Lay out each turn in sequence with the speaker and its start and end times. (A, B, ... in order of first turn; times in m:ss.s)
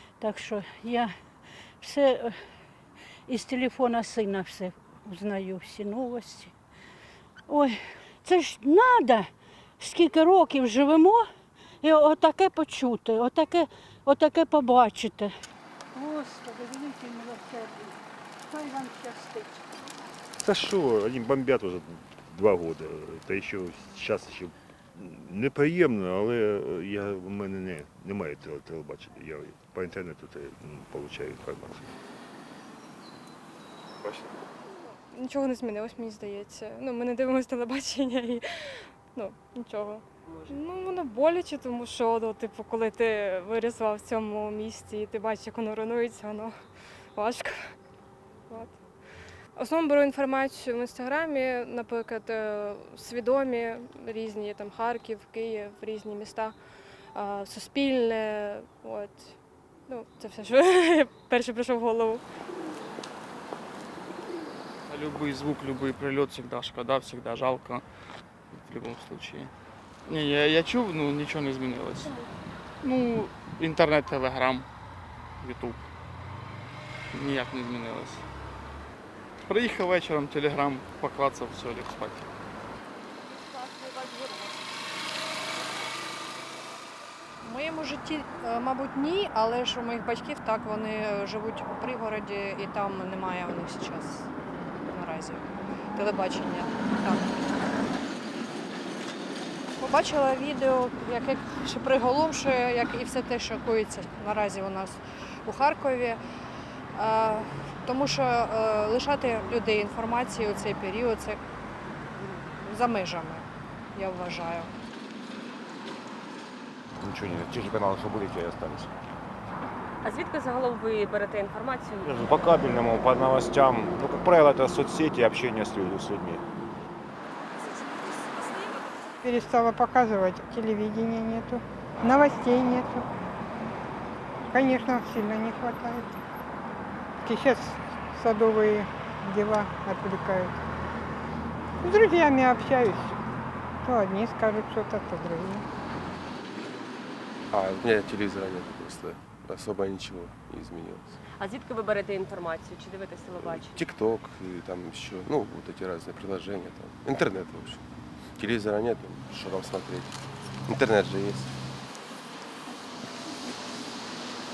0:00.2-0:01.1 A
0:01.8-0:02.4 A
0:03.3-0:06.5 A
0:07.5-0:09.3 A
0:09.8-0:11.3 A
0:11.8-0:15.3 A
0:16.0-0:17.9 A
0:18.5-0:19.6 A
0:20.4-0:31.9 B
0:35.1-0:46.5 C
0:47.2-0:47.7 C
0:48.5-0:48.8 C
0:49.6-0:56.5 C
0:57.2-0:59.4 C
0:59.9-1:02.2 C
1:04.9-1:07.8 D
1:08.5-1:09.5 D
1:10.1-1:12.2 D
1:12.8-1:14.7 D
1:15.4-1:15.9 D
1:17.1-1:18.2 D
1:19.5-1:22.3 D
1:23.8-1:24.5 E
1:27.4-1:34.3 E
1:34.9-1:37.3 E
1:39.8-1:46.2 E
1:46.9-1:51.4 E
1:52.6-1:54.7 E
1:57.0-1:58.9 F
2:00.0-2:02.3 G
2:02.0-2:06.4 F
2:09.2-2:13.0 H
2:14.5-2:16.1 H
2:17.2-2:20.6 H
2:21.8-2:23.2 H
2:23.8-2:25.6 H
2:27.5-2:31.2 I
2:31.3-2:33.8 G
2:33.3-2:37.8 I
2:38.4-2:41.5 I